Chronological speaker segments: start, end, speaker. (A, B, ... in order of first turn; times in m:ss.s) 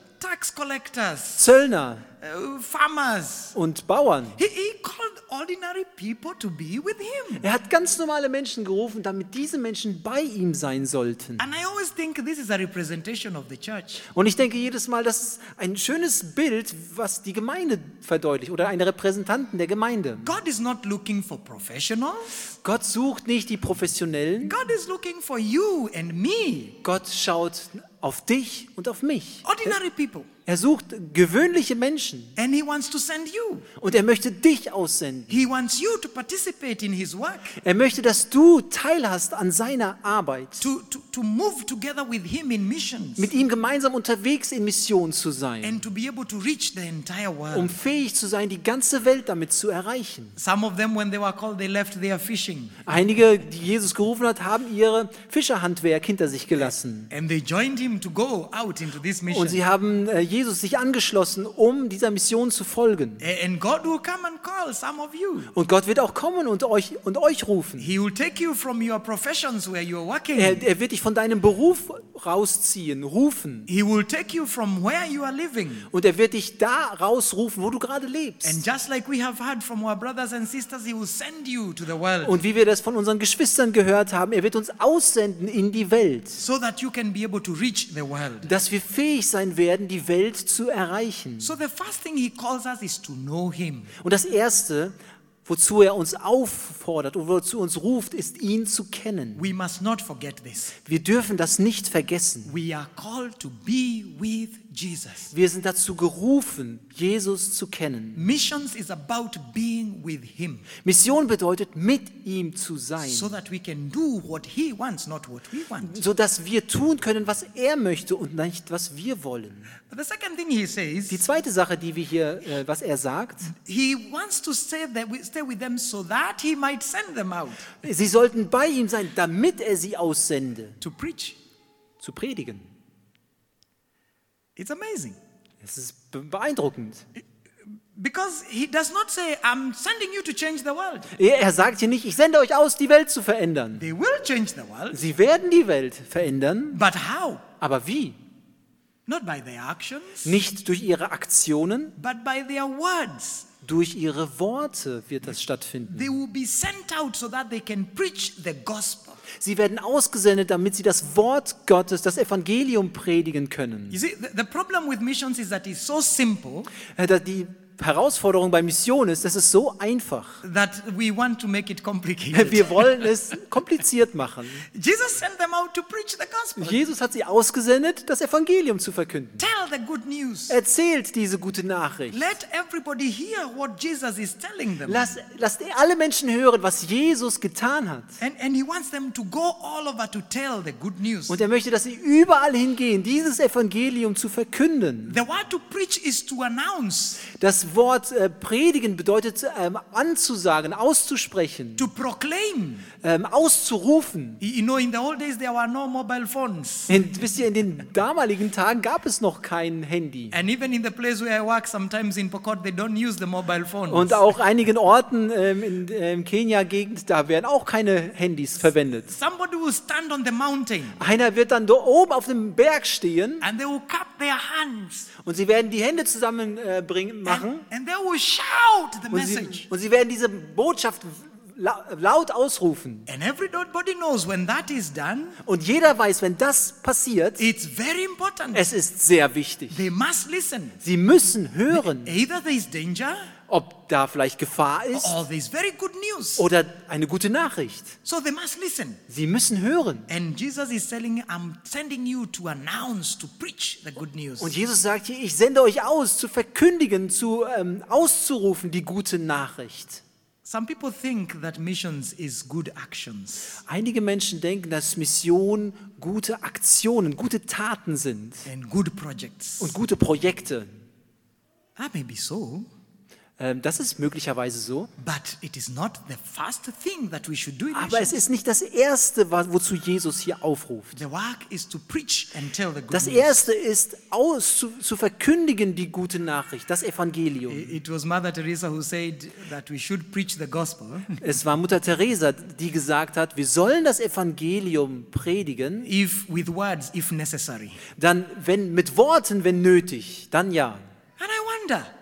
0:00.2-0:01.4 A
0:01.4-0:02.1 B
0:02.2-0:03.6 A
0:03.6-0:04.4 B
0:04.4-0:07.4 A
0:07.4-0:11.4 B
0:11.4-0:14.1 A
0:14.1-0:20.3 B
0:20.2-0:22.5 A
0:22.6-0:24.6 B
0:24.4-0:26.8 A
0:26.8-0:29.7 B
0:29.4-0:30.3 A
0:30.4-0:32.3 B
0:32.4-0:33.7 A
0:33.8-0:35.3 B
0:35.3-0:37.6 A
0:37.6-0:40.7 B
0:40.6-0:43.3 A
0:43.2-0:45.8 B
0:45.6-0:47.7 A
0:47.5-0:50.4 B
0:50.4-0:52.8 A
0:52.8-0:57.1 B
0:57.1-0:59.6 A
0:59.3-1:03.2 B
1:03.2-1:05.5 A
1:05.5-1:07.9 B
1:07.8-1:10.6 A
1:10.3-1:13.7 B
1:13.7-1:15.9 A
1:15.9-1:18.6 B
1:18.4-1:22.4 A
1:22.2-1:26.4 B
1:26.4-1:28.5 A
1:28.4-1:31.5 B
1:31.4-1:33.9 A
1:34.0-1:39.4 B
1:39.4-1:40.8 A
1:40.8-1:42.5 B
1:42.4-1:45.3 A
1:45.3-1:48.2 B
1:48.2-1:50.7 A
1:50.8-1:53.3 B
1:53.0-1:56.0 A
1:55.8-1:59.7 B
1:59.9-2:01.2 A
2:01.1-2:03.5 B
2:03.4-2:07.7 A
2:07.8-2:10.8 B
2:10.8-2:11.4 A
2:12.0-2:12.7 B
2:14.6-2:15.2 A
2:15.6-2:17.0 B
2:17.9-2:21.1 A
2:21.1-2:23.8 B
2:23.8-2:25.0 A
2:24.9-2:26.8 B
2:26.7-2:27.4 A
2:27.6-2:28.2 B
2:29.1-2:30.4 A
2:30.2-2:31.9 B
2:32.0-2:33.5 A
2:33.6-2:36.1 B
2:35.9-2:39.2 A
2:39.4-2:44.0 B
2:43.9-2:46.7 A
2:46.9-2:50.4 B
2:50.4-2:53.1 A
2:52.3-2:54.7 B
2:54.7-2:56.8 A
2:56.6-2:59.4 B
2:59.4-3:00.6 A
3:00.5-3:02.2 B
3:02.1-3:05.2 A
3:04.8-3:08.2 B
3:08.2-3:11.4 A
3:11.3-3:15.2 B
3:15.1-3:17.3 A
3:17.3-3:21.9 B
3:21.8-3:22.9 A
3:23.0-3:24.4 B
3:24.4-3:27.0 A
3:26.9-3:30.3 B
3:30.3-3:34.2 A
3:33.9-3:39.1 B
3:39.1-3:41.0 A
3:41.0-3:43.4 B
3:43.4-3:45.1 A
3:45.2-3:47.6 B
3:47.2-3:49.7 A
3:49.1-3:53.1 B
3:53.1-3:55.4 A
3:55.4-3:57.4 B
3:57.4-3:58.6 A
3:58.5-3:59.8 B
3:59.7-4:00.8 A
4:00.8-4:02.1 B
4:01.7-4:03.3 A
4:03.5-4:05.2 B
4:04.9-4:06.4 A
4:06.4-4:08.0 B
4:08.0-4:09.0 A
4:09.1-4:10.1 B
4:10.1-4:14.6 A
4:14.4-4:20.0 B
4:20.4-4:23.6 A
4:23.7-4:28.5 B
4:28.4-4:29.8 A
4:29.6-4:30.7 B
4:31.8-4:32.7 A
4:33.4-4:34.9 B
4:35.0-4:38.2 A
4:37.7-4:41.0 B
4:40.9-4:43.4 A
4:42.9-4:47.7 B
4:47.5-4:51.2 A
4:51.2-4:55.9 B
4:55.8-4:57.8 A
4:58.0-5:00.8 B
5:01.2-5:01.9 A